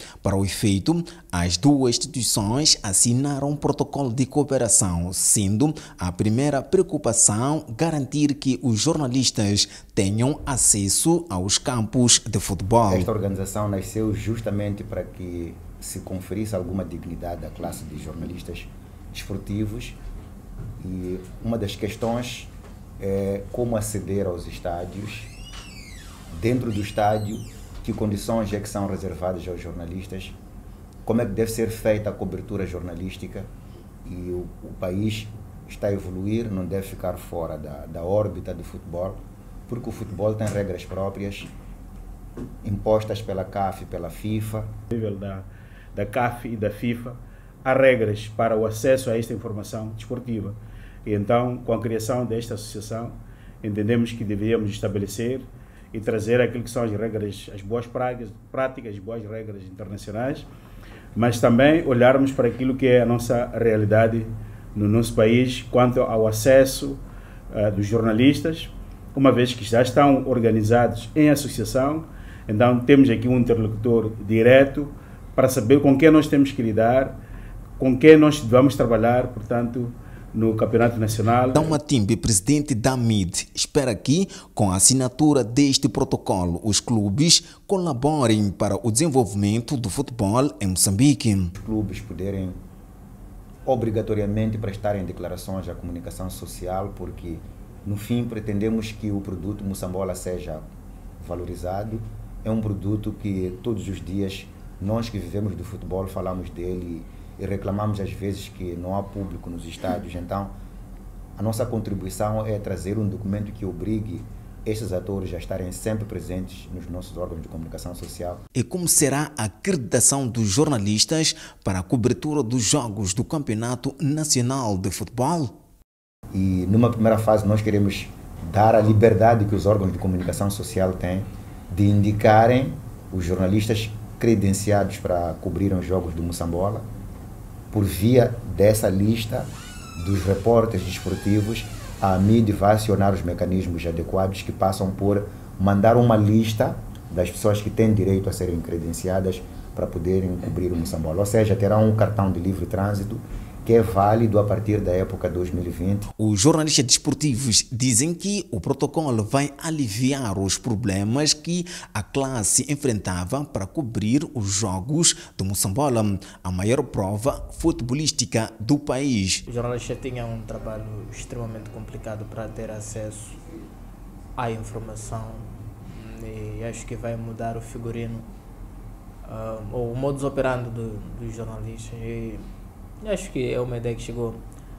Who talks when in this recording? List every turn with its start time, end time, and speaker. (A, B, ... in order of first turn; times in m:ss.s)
0:00.2-0:13.1 A
0:12.9-0:20.0 B
0:20.8-0:25.3 B
0:26.3-0:30.4 B
0:31.1-0:33.5 B
0:34.0-0:41.5 B
0:42.6-0:44.8 B
0:44.9-1:00.5 C
1:01.2-1:07.0 C
1:07.5-1:17.2 C
1:17.8-1:21.8 C
1:21.5-1:31.5 A
1:31.6-1:32.6 B
1:33.7-1:40.6 B
1:41.2-1:50.5 B
1:51.4-1:58.4 B
1:58.6-2:05.6 A
2:06.3-2:16.8 B
2:17.7-2:36.1 B
2:36.2-2:49.4 A
2:49.5-2:53.4 D
2:54.4-2:58.3 D
2:59.2-3:02.5 D
3:03.0-3:04.4 D